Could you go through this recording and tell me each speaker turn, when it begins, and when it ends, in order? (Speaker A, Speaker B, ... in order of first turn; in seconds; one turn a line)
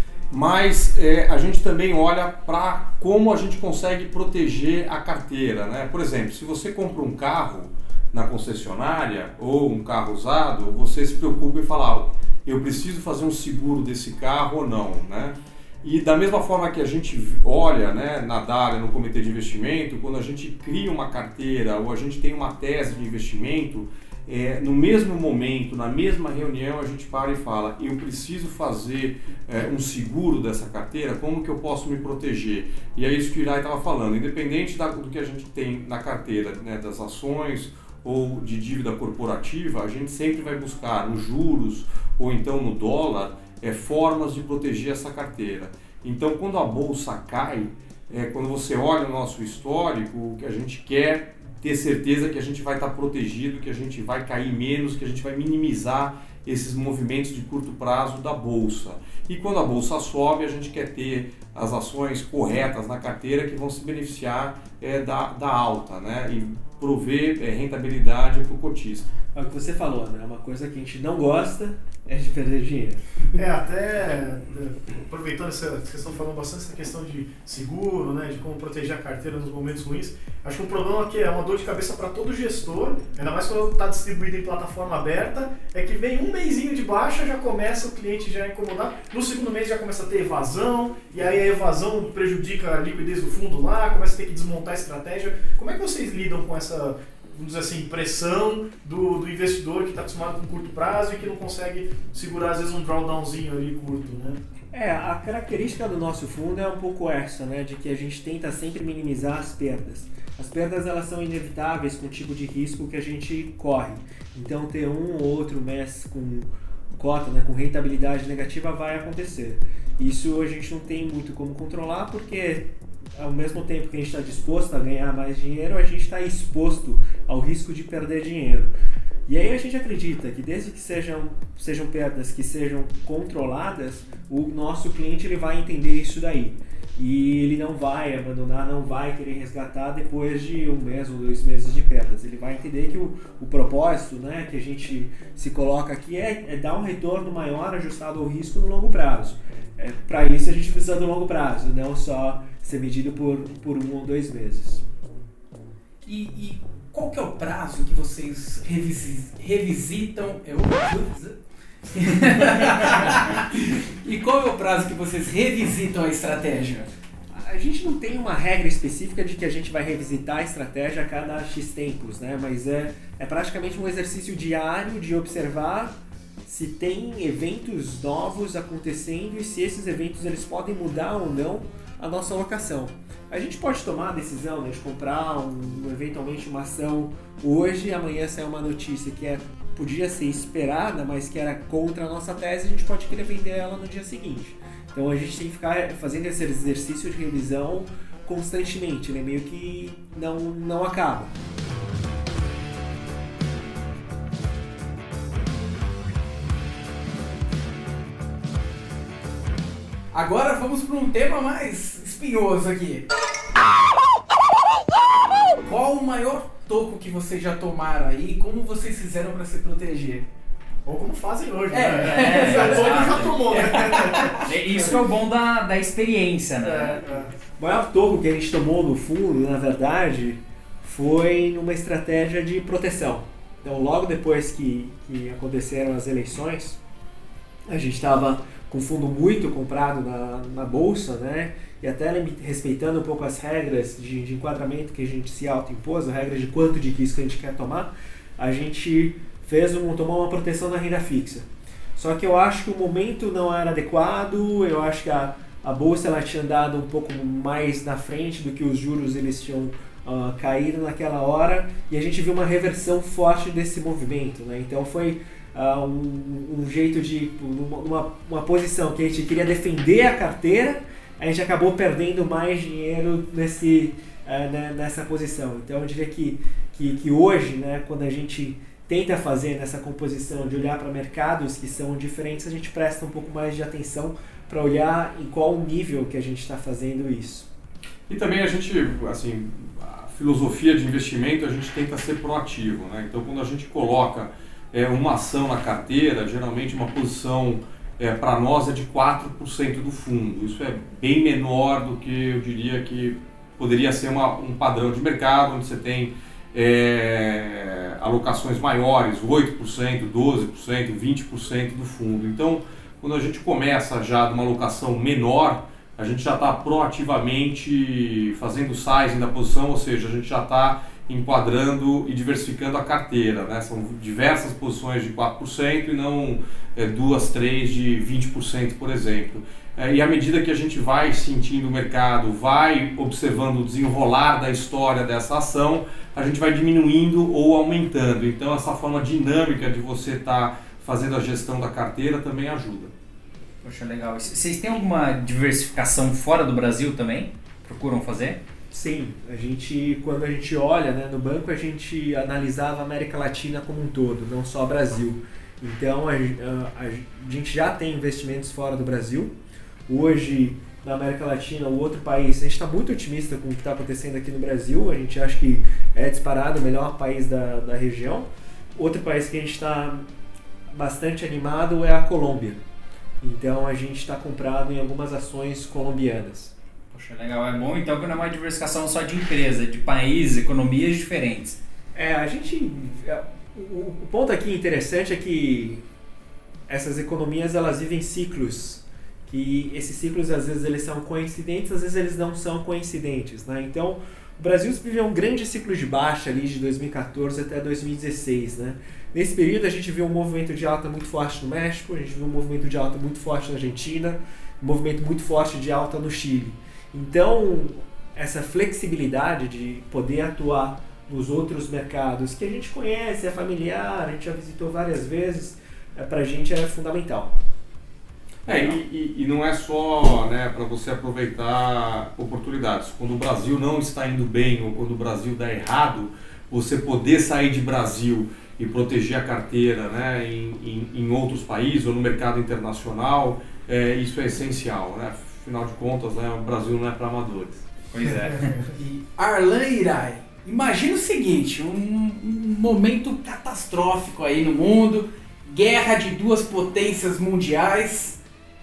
Speaker A: 0.3-69.1
Speaker B: 69.3-73.0
Speaker C: 73.3-104.4
Speaker B: 104.7-128.7
Speaker B: 129.3-154.9
Speaker D: 156.0-161.4
Speaker D: 161.9-166.9
Speaker B: 167.3-201.3
Speaker D: 210.1-213.1
Speaker D: 215.6-220.3
Speaker C: 220.8-225.0
Speaker D: 221.7-224.4
Speaker E: 222.0-227.0
Speaker C: 226.6-227.3
Speaker B: 227.6-236.8
Speaker B: 237.7-287.5
Speaker A: 288.1-342.9
Speaker E: 343.6-348.4
Speaker B: 348.7-359.3
Speaker B: 359.9-370.1
Speaker B: 370.7-372.6
Speaker B: 373.2-376.5
Speaker E: 376.9-381.6
Speaker B: 381.9-385.9
Speaker B: 386.7-417.4
Speaker A: 418.4-437.7
Speaker E: 437.9-438.6
Speaker C: 438.0-438.8
Speaker D: 438.8-448.2